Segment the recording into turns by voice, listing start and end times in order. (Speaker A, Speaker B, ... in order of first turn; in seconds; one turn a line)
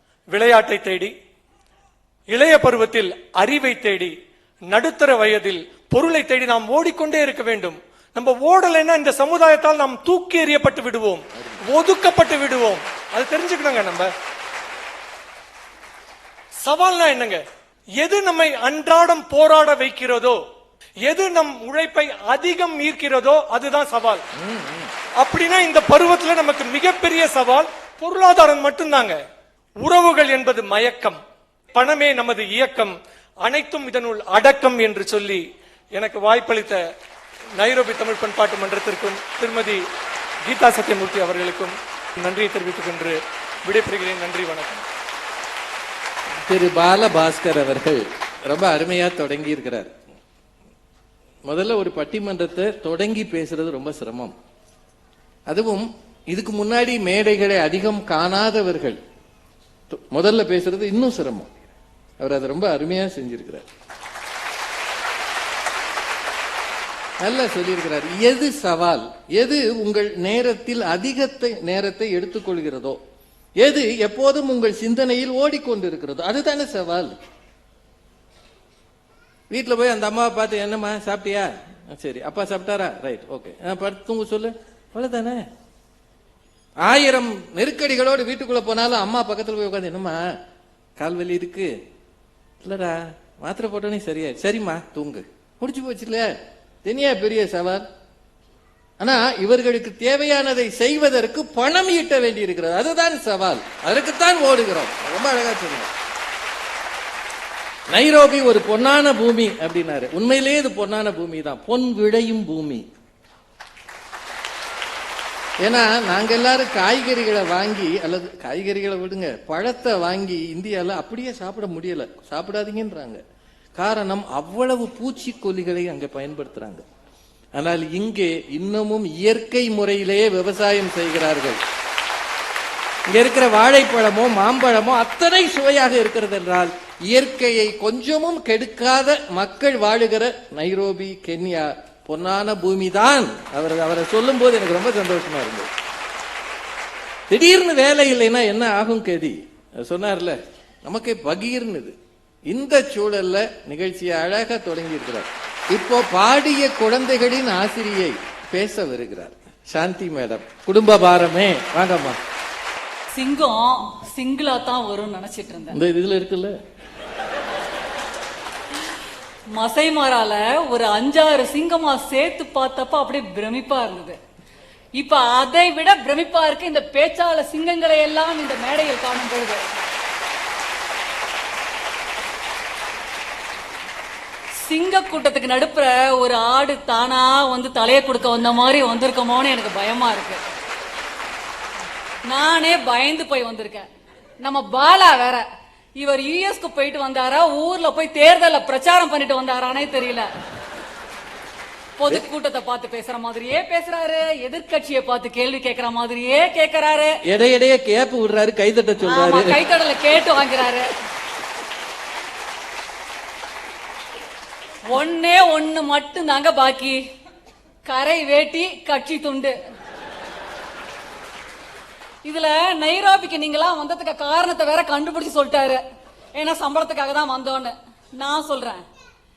Speaker A: 0.3-1.1
Speaker A: 2.3-4.2
Speaker A: 4.7-14.1
Speaker B: 11.3-11.6
Speaker A: 16.6-17.4
Speaker A: 18.0-20.4
Speaker A: 21.1-24.2
Speaker B: 24.4-24.9
Speaker A: 25.2-29.2
Speaker A: 29.8-31.2
Speaker A: 31.7-35.4
Speaker A: 35.9-36.8
Speaker A: 37.6-39.8
Speaker A: 40.5-44.8
Speaker B: 46.5-50.0
Speaker B: 51.5-54.4
Speaker B: 55.5-59.0
Speaker B: 59.9-61.6
Speaker B: 62.2-63.7
Speaker B: 67.2-73.0
Speaker B: 73.6-77.1
Speaker B: 79.5-85.5
Speaker B: 86.8-90.3
Speaker B: 91.0-91.7
Speaker B: 92.6-96.3
Speaker B: 96.8-97.8
Speaker B: 99.0-105.9
Speaker B: 107.9-112.9
Speaker B: 115.6-123.2
Speaker B: 123.8-126.8
Speaker B: 127.6-131.6
Speaker B: 133.1-145.7
Speaker B: 147.3-152.0
Speaker B: 152.5-162.2
Speaker C: 163.1-165.8
Speaker B: 165.7-166.6
Speaker C: 169.5-174.2
Speaker C: 175.0-179.6
Speaker C: 184.6-190.4
Speaker C: 192.3-193.9
Speaker C: 194.4-195.4
Speaker C: 196.0-200.3
Speaker C: 202.0-207.2
Speaker B: 207.2-209.6
Speaker C: 209.0-210.9
Speaker C: 214.9-217.0
Speaker C: 217.8-219.6
Speaker C: 222.2-225.8
Speaker C: 226.3-228.8